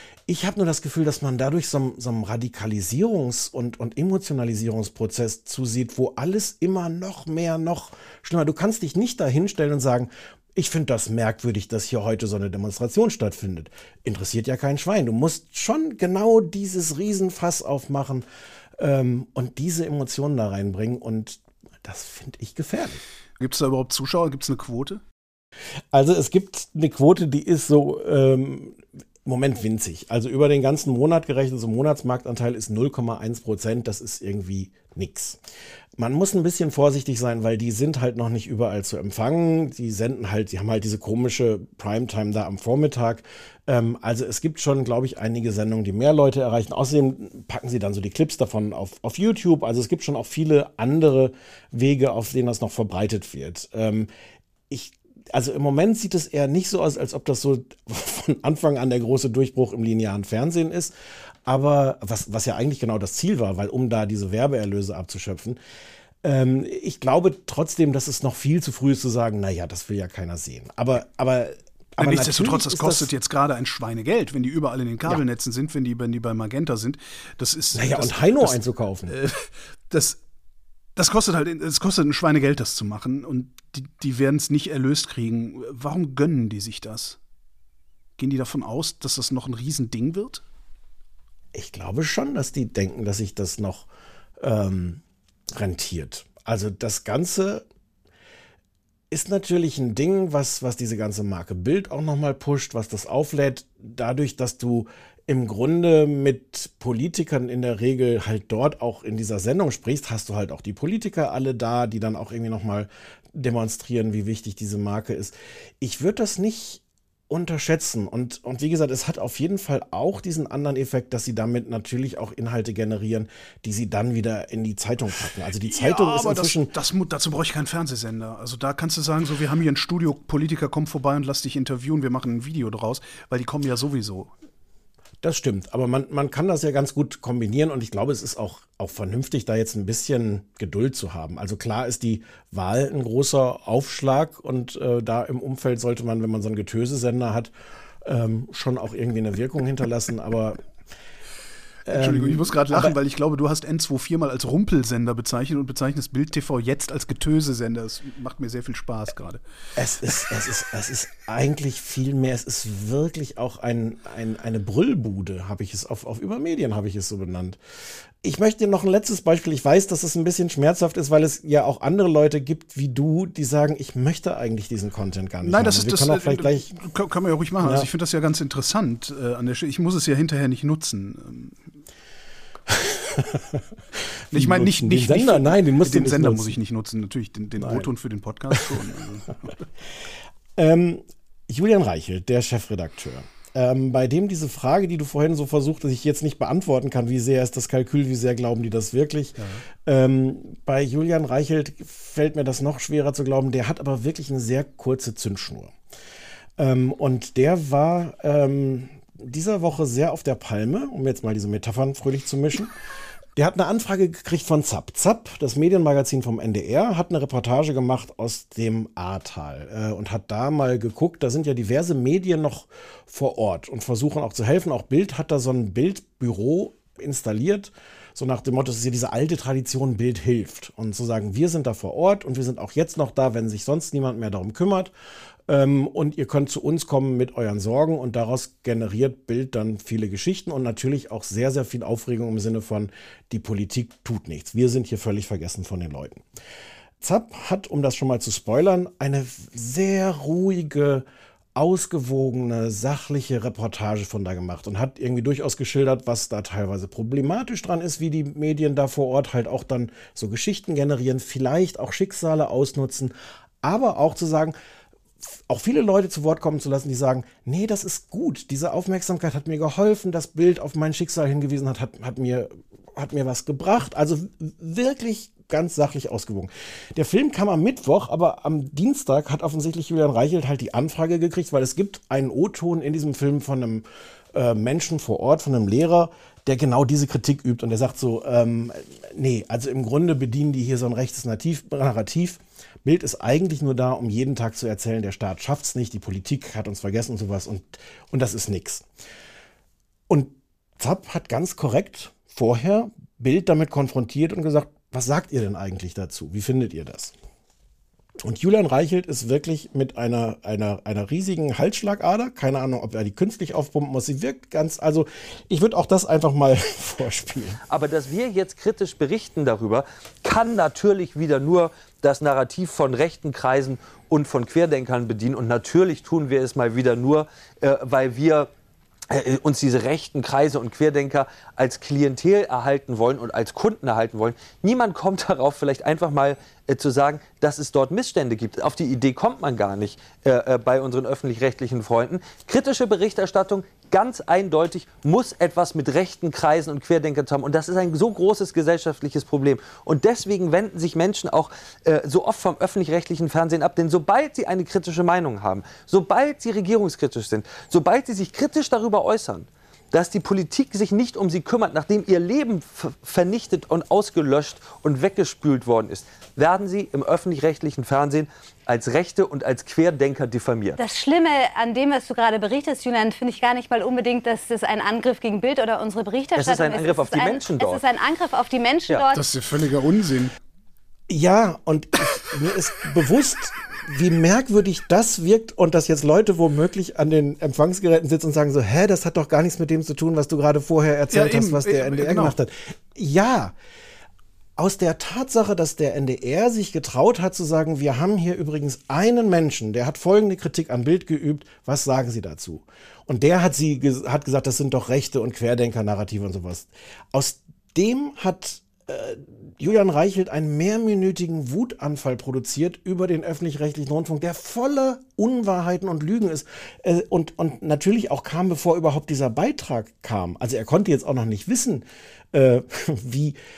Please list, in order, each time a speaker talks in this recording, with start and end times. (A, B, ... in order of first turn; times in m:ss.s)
0:00.3-0:18.2 A
0:18.8-0:23.0 A
0:23.4-0:25.0 B
0:25.9-0:35.4 A
0:36.0-0:54.1 A
0:54.7-1:00.9 A
1:01.4-1:05.6 A
1:06.2-1:13.1 A
1:12.0-1:20.2 B
1:17.7-1:19.2 A
1:21.0-1:27.2 B
1:28.2-1:30.4 B
1:31.5-1:33.9 A
1:34.4-1:35.0 A
1:35.6-1:37.6 A
1:39.1-2:06.7 A
2:05.6-2:14.3 B
2:15.2-2:27.5 A
2:28.0-2:30.6 A
2:31.8-2:33.0 A
2:31.9-2:39.4 B
2:39.8-2:47.6 A
2:48.2-2:56.7 A
2:55.4-3:01.7 B
2:57.6-2:57.9 A
3:02.7-3:03.6 A
3:04.3-3:06.6 A
3:04.3-3:09.6 B
3:07.6-3:07.9 A
3:10.6-3:25.7 A
3:19.4-3:19.6 B
3:26.6-3:32.7 A
3:33.4-3:54.9 A
3:55.5-4:06.2 A
4:07.0-4:24.5 A
4:25.3-4:58.8 A
5:00.1-5:07.1 A
5:08.2-5:17.6 A
5:17.7-5:28.5 C
5:29.1-6:10.8 C
6:10.8-6:19.2 D
6:16.3-6:17.8 C
6:19.1-6:20.3 B
6:21.1-6:33.5 A
6:31.1-6:32.4 B
6:34.6-7:03.4 A